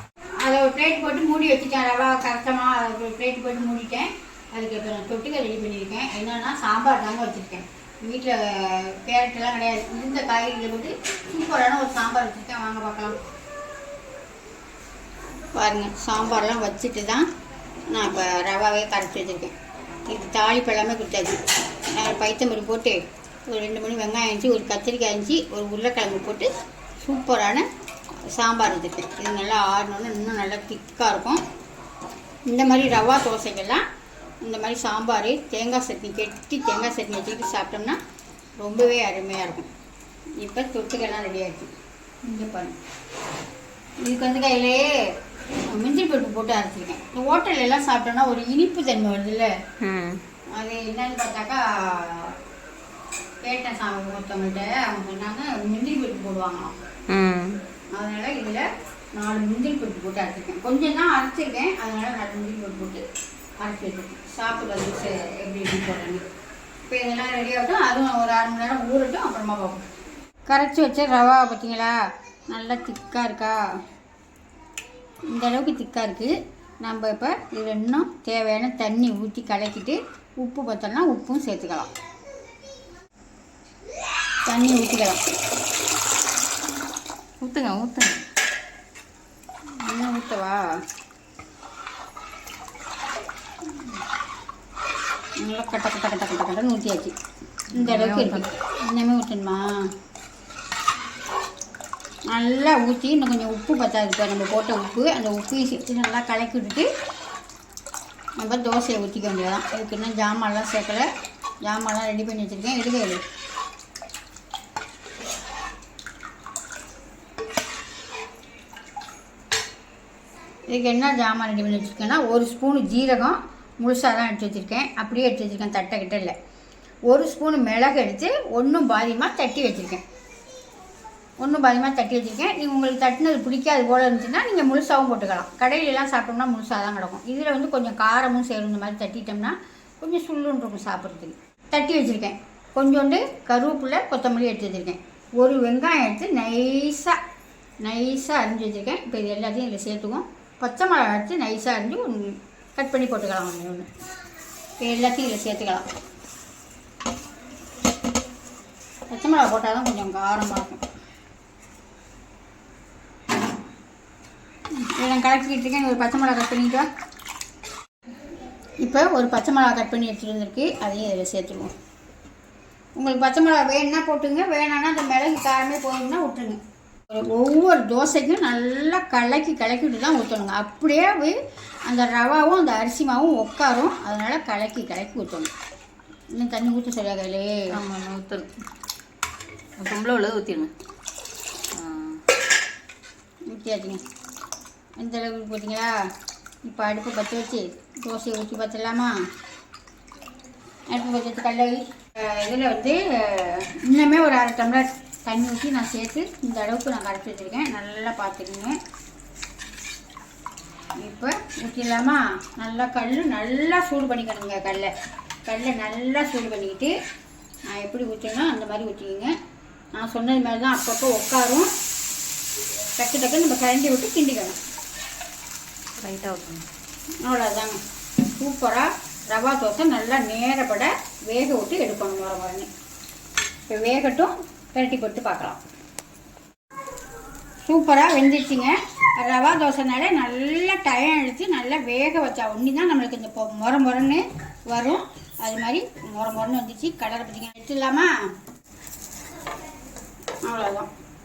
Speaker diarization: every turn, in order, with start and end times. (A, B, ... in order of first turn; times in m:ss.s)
0:00.4-0:13.2 A
0:15.5-0:17.3 A
0:17.9-0:19.6 A
0:20.1-0:27.6 A
0:28.2-0:31.4 A
0:32.5-0:33.8 A
0:34.4-0:38.0 A
0:38.6-0:39.7 A
0:40.4-0:41.7 A
0:42.2-0:42.8 A
0:44.0-0:44.9 A
0:45.7-0:49.5 A
0:49.8-0:50.2 B
0:50.6-0:52.4 A
0:53.4-0:56.7 A
0:57.1-0:57.6 B
0:58.0-1:03.0 A
1:03.6-1:06.2 A
1:06.9-1:09.9 A
1:10.5-1:12.0 A
1:12.5-1:13.6 A
1:15.3-1:21.9 A
1:24.5-1:25.2 A
1:27.4-1:28.2 B
1:29.8-1:30.6 A
1:35.4-1:37.1 A
1:37.7-1:38.5 B
1:37.8-1:39.6 A
1:42.3-1:46.9 A
1:48.4-1:51.1 A
1:51.6-1:53.2 A
2:00.7-2:06.3 A
2:07.1-2:10.0 A
2:11.4-2:27.2 A
2:27.8-2:33.9 A
2:34.8-2:35.8 A
2:39.1-2:40.8 A
2:44.8-2:46.9 A
2:48.8-2:51.7 A
2:53.0-3:01.4 A
3:01.9-3:05.5 A
3:06.3-3:07.5 A
3:07.8-3:08.5 B
3:09.8-3:10.7 B
3:11.7-3:12.2 B
3:13.5-3:14.0 A
3:15.0-3:16.1 A
3:16.6-3:19.2 A
3:20.9-3:28.8 A
3:31.0-3:34.9 A
3:35.5-3:36.9 A
3:37.7-3:39.3 A
3:40.0-3:41.7 A
3:43.0-3:44.6 A
3:46.0-3:46.6 B
3:47.2-3:52.7 A
3:53.7-3:55.6 A
3:57.6-4:08.1 A
4:10.4-4:10.9 A